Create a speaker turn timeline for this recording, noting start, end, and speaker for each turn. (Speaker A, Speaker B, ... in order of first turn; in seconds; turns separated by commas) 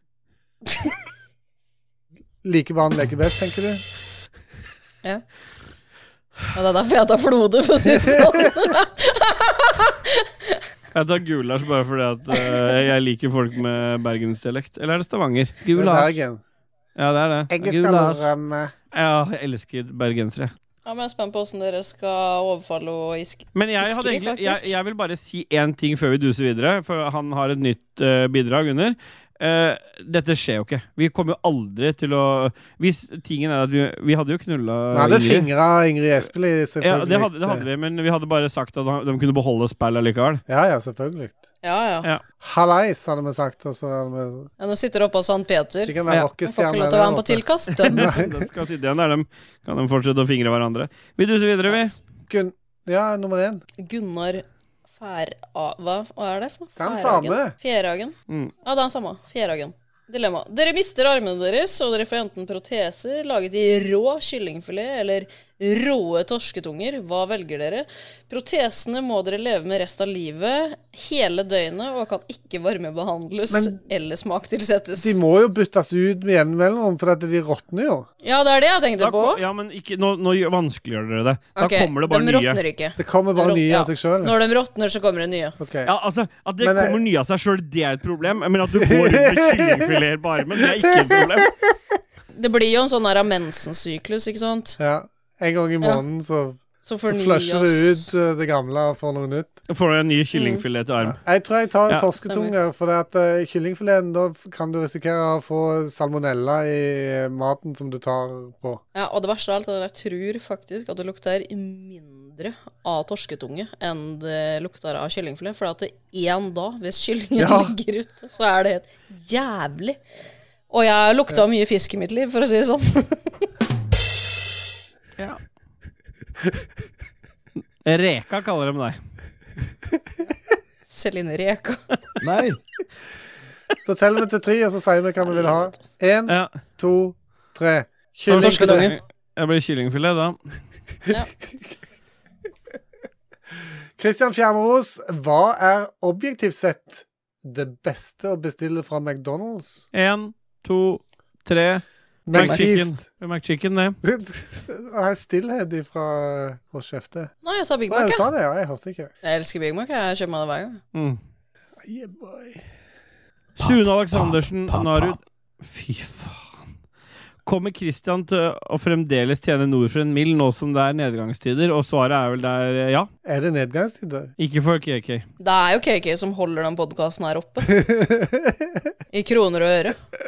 Speaker A: 2.4-3.8, Speaker B: 6.5-10.6, Speaker C: 10.9-16.2, Speaker B: 12.3-12.7, Speaker A: 15.7-16.4, Speaker C: 17.0-18.2, Speaker A: 17.5-18.7, Speaker C: 18.9-20.5, Speaker B: 20.9-24.7, Speaker C: 23.6-35.5, Speaker A: 34.9-37.7, Speaker C: 36.8-40.4, Speaker A: 40.5-41.4, Speaker B: 41.6-42.1, Speaker A: 42.4-44.5, Speaker B: 44.6-48.2, Speaker A: 45.9-48.5, Speaker C: 47.9-52.0, Speaker A: 52.3-53.6, Speaker B: 53.8-54.4, Speaker B: 55.0-75.2, Speaker A: 56.8-57.5, Speaker A: 73.5-73.8, Speaker A: 75.0-78.1, Speaker B: 78.2-79.4, Speaker C: 79.0-82.6, Speaker B: 81.6-85.6, Speaker A: 83.0-84.3, Speaker A: 85.6-85.9, Speaker C: 85.8-91.5, Speaker A: 86.6-87.0, Speaker A: 88.7-90.0, Speaker A: 90.6-91.5, Speaker B: 92.3-94.8, Speaker A: 94.8-99.6, Speaker B: 96.8-98.1, Speaker C: 99.7-101.2, Speaker B: 100.3-100.6, Speaker A: 101.0-108.8, Speaker B: 102.2-102.5, Speaker B: 109.0-120.0, Speaker A: 117.4-117.8, Speaker B: 120.7-123.5, Speaker C: 127.8-129.0, Speaker B: 130.8-131.8, Speaker D: 132.2-132.6, Speaker A: 133.8-138.9, Speaker B: 135.3-135.8, Speaker C: 138.3-140.4, Speaker B: 138.4-139.0, Speaker A: 144.0-149.9, Speaker C: 149.9-154.0, Speaker A: 152.3-153.0, Speaker B: 152.3-152.6, Speaker A: 154.0-157.3, Speaker B: 157.4-158.3, Speaker A: 157.9-159.1, Speaker B: 159.2-160.8, Speaker C: 160.9-161.2, Speaker A: 161.8-162.6, Speaker C: 163.6-166.5, Speaker D: 163.6-165.2, Speaker C: 167.4-173.1, Speaker A: 173.2-174.3, Speaker C: 174.4-175.2, Speaker B: 175.4-177.8, Speaker A: 177.7-178.9, Speaker B: 179.1-180.0